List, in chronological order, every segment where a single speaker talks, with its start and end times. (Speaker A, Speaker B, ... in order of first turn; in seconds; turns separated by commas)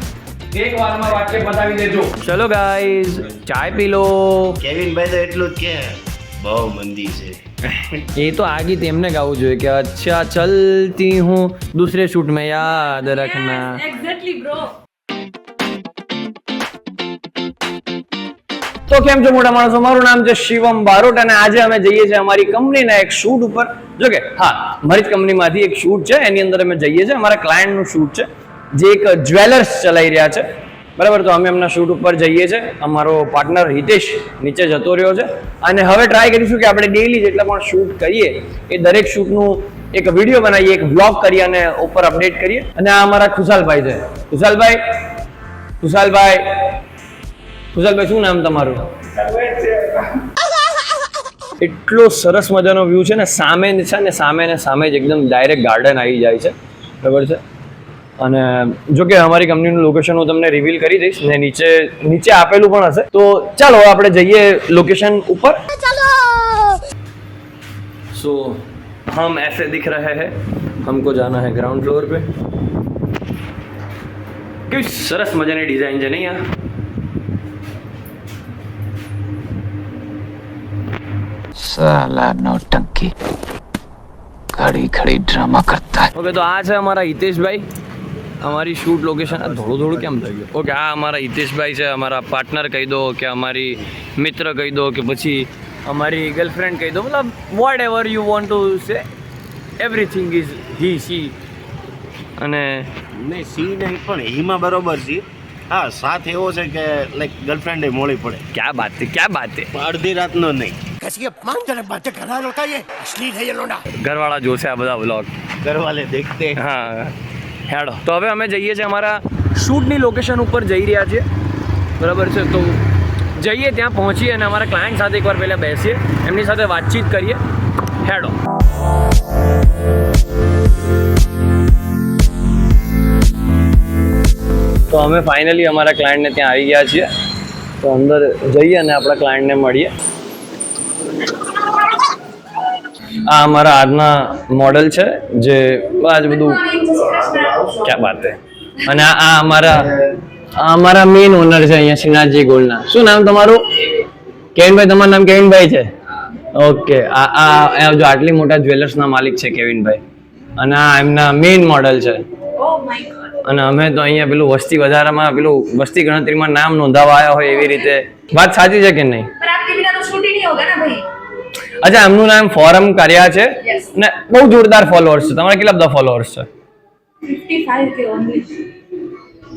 Speaker A: 0.5-4.6, Speaker B: 4.6-7.4, Speaker A: 8.2-13.8, Speaker C: 12.6-14.7, Speaker A: 18.9-30.4, Speaker A: 31.0-44.8, Speaker A: 45.8-46.8, Speaker A: 47.7-50.1, Speaker A: 51.6-57.4, Speaker A: 58.2-65.6, Speaker D: 66.0-66.7, Speaker A: 68.1-70.3, Speaker A: 70.8-72.3, Speaker A: 74.7-76.4, Speaker D: 81.5-83.1, Speaker D: 84.5-86.1, Speaker A: 86.1-87.7, Speaker A: 88.4-99.0, Speaker B: 89.2-90.3, Speaker A: 99.8-101.3, Speaker A: 102.4-102.9, Speaker B: 103.1-108.4, Speaker A: 108.5-109.7, Speaker B: 109.7-110.8, Speaker D: 111.0-113.8, Speaker A: 114.0-115.3, Speaker B: 115.6-116.6, Speaker A: 116.6-117.2, Speaker A: 117.7-121.2, Speaker A: 122.0-122.8, Speaker A: 123.4-127.4, Speaker A: 128.0-128.3, Speaker A: 134.9-137.1, Speaker A: 137.8-139.9, Speaker A: 143.1-146.6, Speaker C: 146.2-147.5, Speaker B: 146.9-148.0, Speaker A: 147.8-149.9, Speaker B: 149.6-150.1, Speaker A: 150.6-154.0, Speaker A: 154.5-155.9, Speaker A: 156.6-160.0, Speaker A: 160.6-162.2, Speaker C: 162.6-163.3, Speaker A: 163.4-169.3, Speaker C: 167.4-167.9, Speaker C: 169.4-171.1, Speaker A: 171.8-176.5, Speaker C: 173.6-174.0, Speaker C: 177.2-178.7